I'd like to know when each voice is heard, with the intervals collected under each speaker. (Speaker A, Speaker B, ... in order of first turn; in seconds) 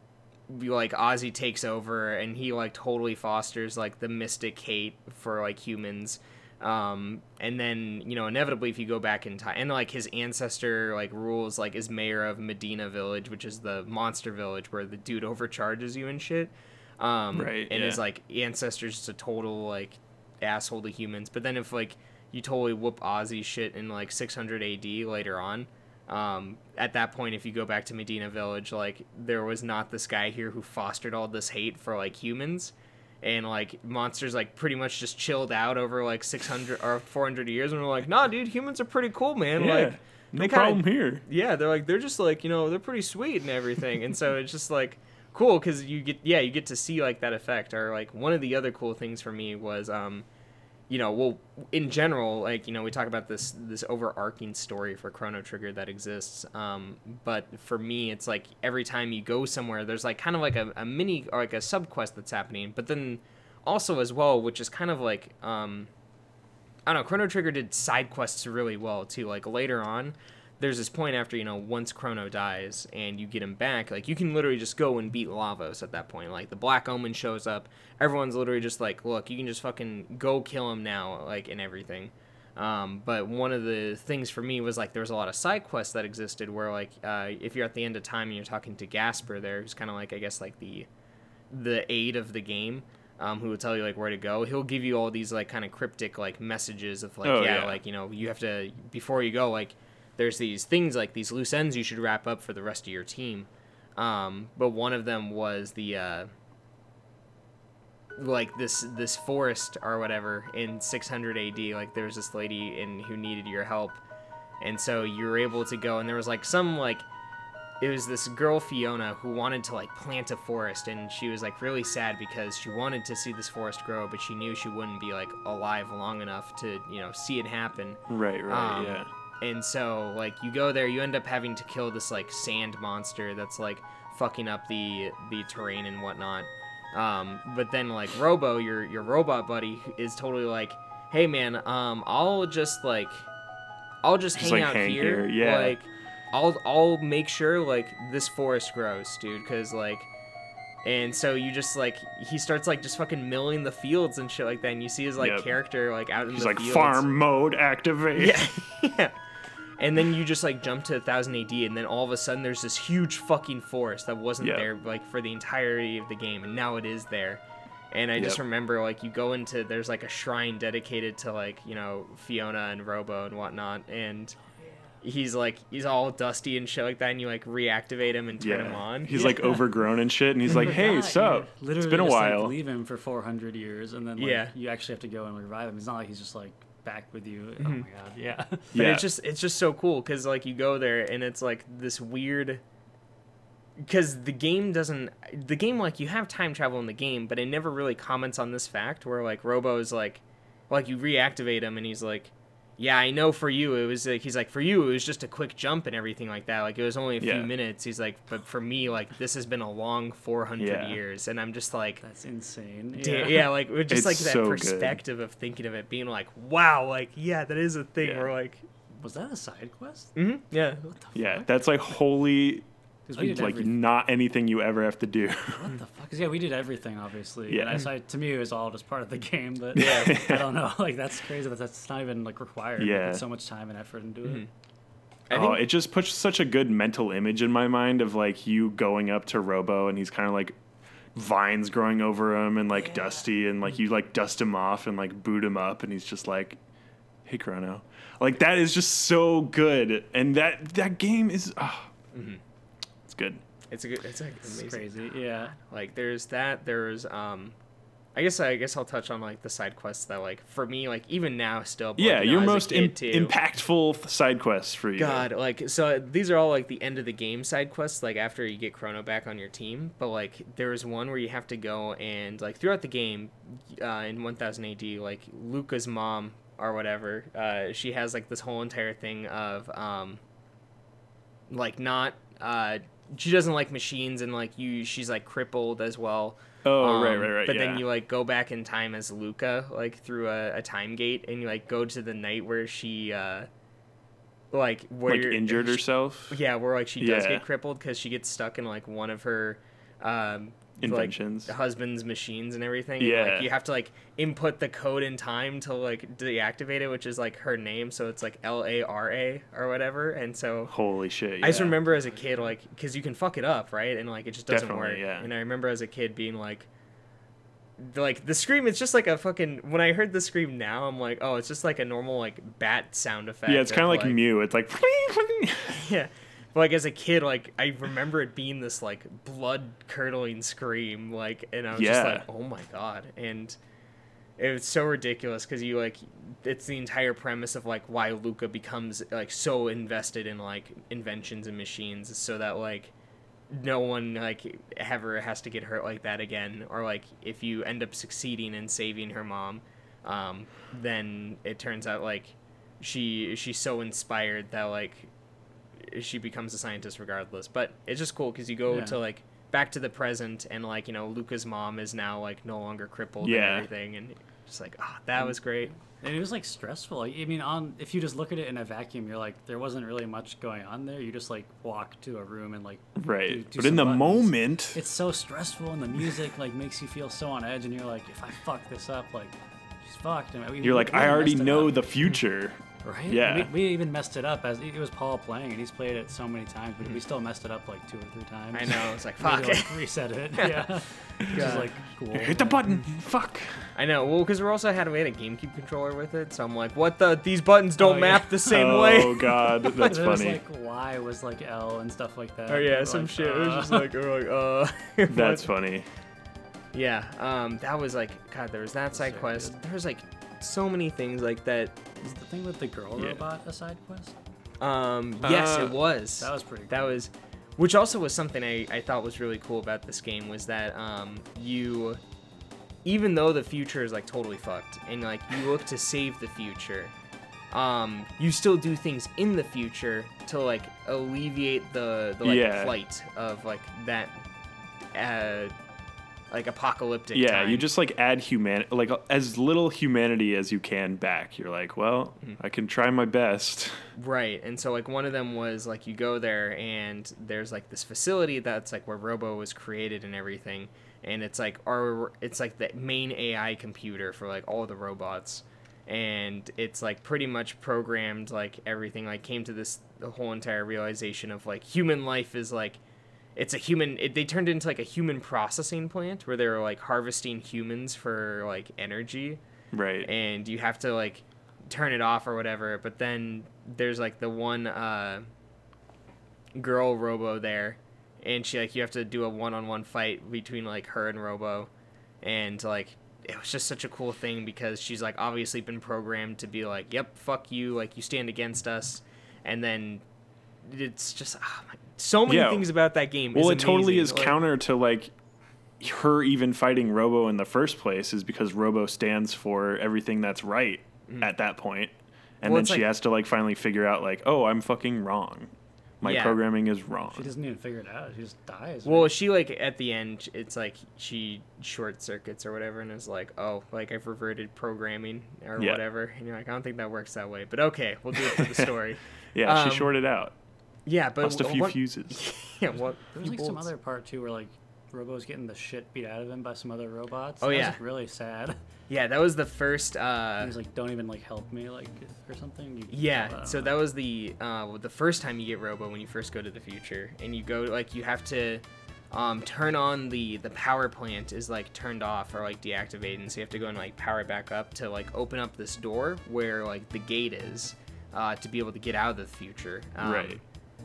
Speaker A: 0.5-50.2, 50.9-65.9, 66.8-90.9, 91.5-106.3, 108.2-114.0, 114.6-117.0, 117.8-143.3, 144.0-150.1, 150.8-157.1, 158.2-159.2, 159.8-174.4, 175.0-179.3, 184.2-184.5, 188.7-192.6, 193.8-212.0, 213.0-218.6, 220.1-220.9, 229.8-230.1, 235.3-235.6, 252.1-252.4, 253.7-255.0, 255.6-257.6, 258.1-263.3, 264.9-280.2, 281.5-293.5, 294.5-310.7, 311.4-316.7, 317.8-324.2, 325.7-333.6, 334.4-342.9, 343.5-355.1, 355.8-365.7, 388.5-389.8, 390.4-391.7, 393.7-399.9, 402.5-405.5, 406.7-411.8, 414.6-422.0, 422.8-426.9, 427.5-434.2, 434.9-435.5, 436.3-437.7, 443.9-462.8, 463.4-469.4, 470.0-475.2, 476.6-481.7, 482.2-490.0, 490.6-494.4, 502.4-502.9, 506.0-506.4, 508.8-519.9, 520.9-523.7, 527.4-527.8, 528.9-530.5, 532.9-550.4
Speaker B: 17.3-18.0, 39.6-41.2, 97.2-97.8, 128.1-129.1, 144.3-145.8, 155.2-155.5, 156.3-158.5, 164.4-164.7, 178.4-182.5, 188.7-189.1, 207.2-207.5, 210.6-211.0, 213.9-215.0, 218.0-218.3, 221.1-225.7, 227.5-227.8, 229.8-230.5, 232.8-233.2, 235.3-240.6, 241.1-246.6, 247.2-251.9, 253.1-253.4, 262.0-265.3, 286.6-287.8, 295.1-296.4, 297.0-297.4, 300.8-301.5, 303.0-303.5, 310.7-311.8, 314.5-315.3, 323.5-325.8, 331.7-332.2, 363.2-363.7, 372.9-374.8, 380.6-383.5, 391.2-393.7, 398.5-400.4, 405.1-405.9, 412.9-413.2, 415.2-415.8, 432.2-432.7, 437.1-443.9, 469.7-470.1, 492.3-492.7, 493.3-495.1, 495.8-507.3, 518.1-518.7, 519.3-520.3, 521.2-522.2, 550.0-550.4
Speaker C: 179.1-179.7, 180.5-188.7, 212.0-213.5, 219.0-220.2, 220.8-221.5, 223.1-223.8, 225.6-234.4, 254.4-255.6, 358.7-359.0, 366.0-381.9, 382.8-392.6, 397.8-398.5, 399.7-403.9, 408.9-409.6, 412.0-414.1, 416.2-417.0, 507.1-509.1, 523.1-528.5, 530.4-533.8